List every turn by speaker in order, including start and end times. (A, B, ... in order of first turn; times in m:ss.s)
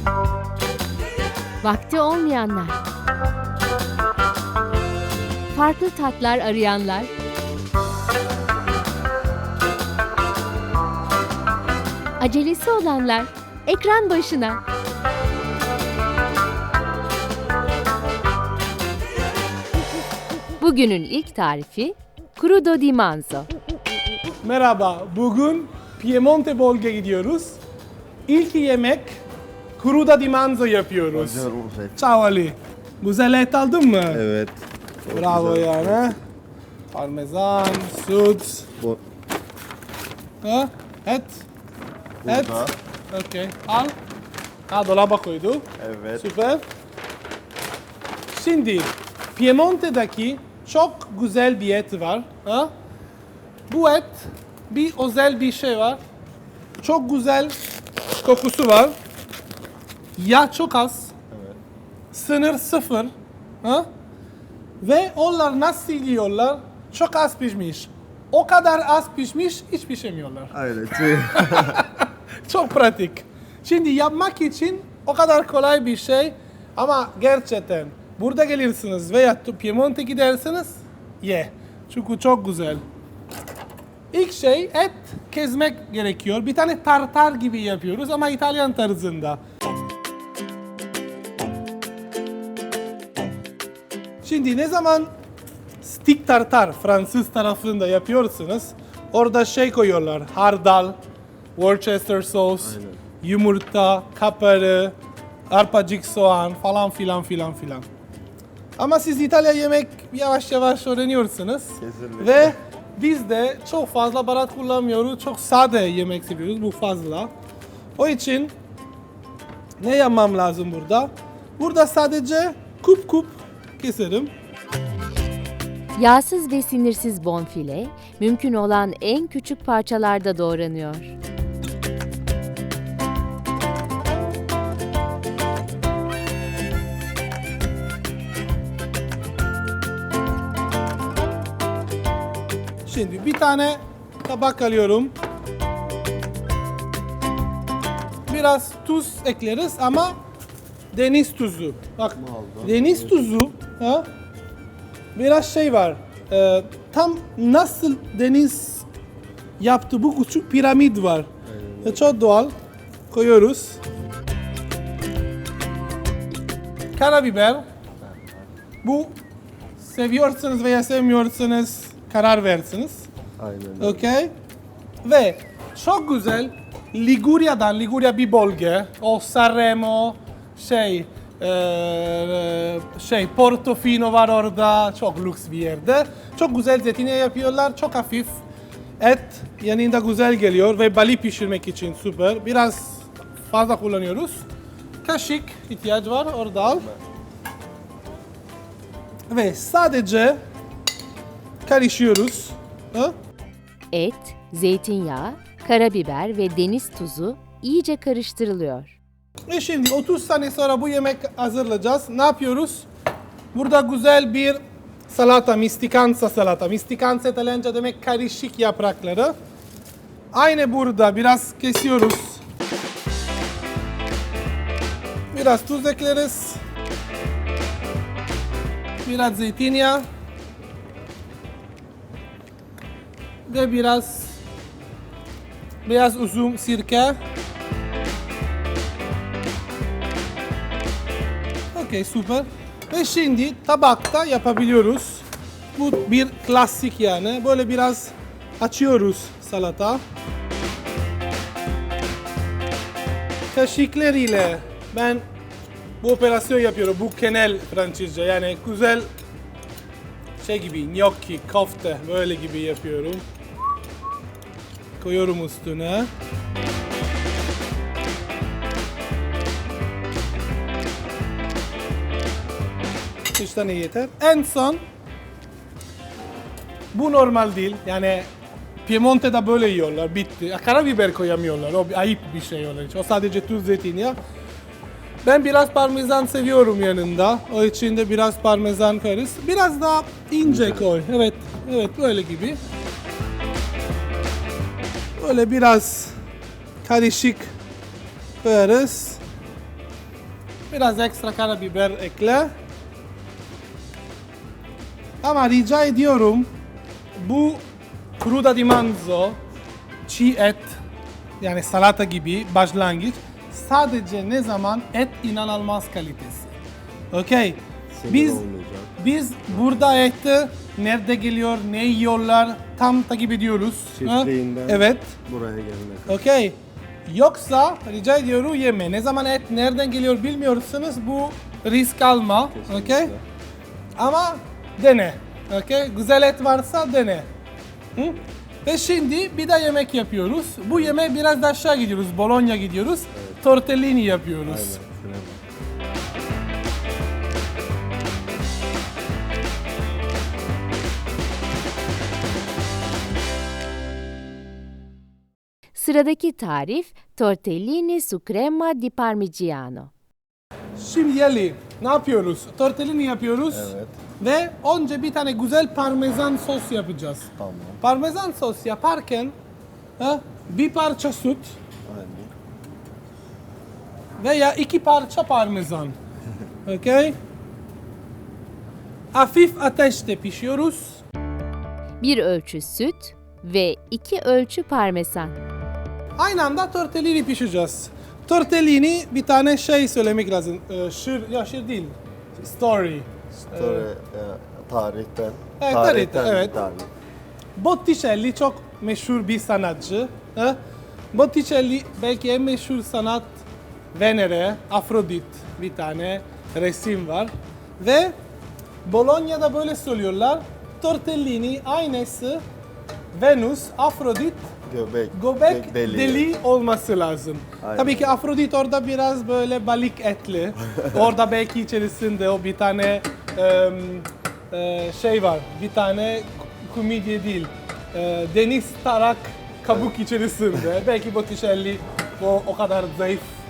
0:01.6-0:02.8 A
0:05.5-0:07.1 A
0:12.2-0:14.6 A
0:20.6-0:23.5 A
0:24.4-0:27.6 B
0:28.3-0:29.2 B
0:29.8-0:34.2 B
0:31.1-0:32.0 C
0:34.1-0:36.1 C
0:35.1-0:36.2 B
0:36.9-0:38.7 B
0:40.4-0:41.4 B
0:42.2-0:42.7 C
0:42.2-0:43.9 B
0:44.7-0:46.6 B
0:45.8-0:46.3 C
0:48.3-0:52.7 B
0:53.7-0:56.0 B
0:56.8-0:57.6 B
0:58.2-0:58.9 B
1:00.2-1:01.1 B
1:01.3-1:01.6 C
1:02.1-1:03.1 B
1:04.8-1:10.5 B
1:10.5-1:11.8 C
1:11.3-1:22.8 B
1:24.1-1:29.4 B
1:34.2-1:35.1 B
1:35.8-1:41.0 B
1:41.6-1:44.9 B
1:42.6-1:43.0 C
1:45.5-1:47.9 B
1:48.8-1:57.3 B
1:51.8-1:52.5 C
1:58.0-1:58.5 B
1:59.8-2:04.3 B
2:06.0-2:11.1 A
2:22.8-2:25.1 B
2:28.3-2:30.2 B
2:30.9-2:34.0 B
2:32.2-2:33.3 C
2:35.1-2:38.8 B
2:39.6-2:41.3 B
2:41.4-2:42.2 C
2:41.8-2:42.5 B
2:43.1-2:43.8 B
2:47.0-2:47.6 B
2:48.0-2:48.3 C
2:48.8-2:49.1 B
2:49.8-2:53.1 B
2:53.4-2:54.0 C
2:53.8-2:54.3 B
2:55.0-3:08.4 B
3:09.0-3:14.4 B
3:15.0-3:16.9 B
3:19.3-3:20.4 B
3:21.6-3:23.1 B
3:23.9-3:28.9 A
3:29.5-3:32.9 B
3:33.5-3:39.3 B
3:40.3-3:42.4 B
3:45.3-3:46.6 B
3:49.0-3:50.0 B
3:53.5-3:54.4 B
3:55.8-3:57.2 B
4:01.7-4:10.0 B
4:13.5-4:15.2 B
4:16.0-4:19.1 B
4:20.4-4:23.2 B
4:25.0-4:26.1 B
4:33.3-4:34.8 B
4:36.9-4:38.3 B
4:38.8-4:44.2 B
4:45.2-4:52.6 B
4:50.4-4:50.9 C
4:55.2-4:56.1 B
4:56.8-4:57.5 B
4:58.4-4:59.2 B
5:00.7-5:02.5 B
5:05.2-5:06.5 B
5:07.2-5:07.6 B
5:08.2-5:09.4 B
5:10.0-5:10.8 B
5:11.4-5:16.5 B
5:17.1-5:18.4 B
5:17.9-5:18.9 C
5:19.0-5:25.1 B
5:24.0-5:26.2 C
5:26.1-5:33.1 B
5:32.5-5:33.2 C
5:34.0-5:37.3 B
5:38.0-5:44.8 B
5:44.5-5:45.4 C
5:55.7-5:59.9 A
6:00.8-6:07.3 B
6:03.5-6:04.0 C
6:07.4-6:07.8 C
6:07.8-6:09.3 B
6:10.0-6:11.5 B
6:11.8-6:12.3 C
6:14.2-6:16.0 B
6:16.6-6:17.1 B
6:19.1-6:21.0 B
6:22.0-6:25.3 A
6:26.2-6:33.9 B
6:33.3-6:36.9 C
6:35.6-6:36.6 B
6:37.6-6:40.6 B
6:41.1-6:43.4 B
6:43.9-6:48.1 B
6:48.8-6:52.4 B
6:53.1-6:54.5 B
6:54.7-6:56.3 C
6:55.1-7:13.3 B
6:57.6-6:58.2 C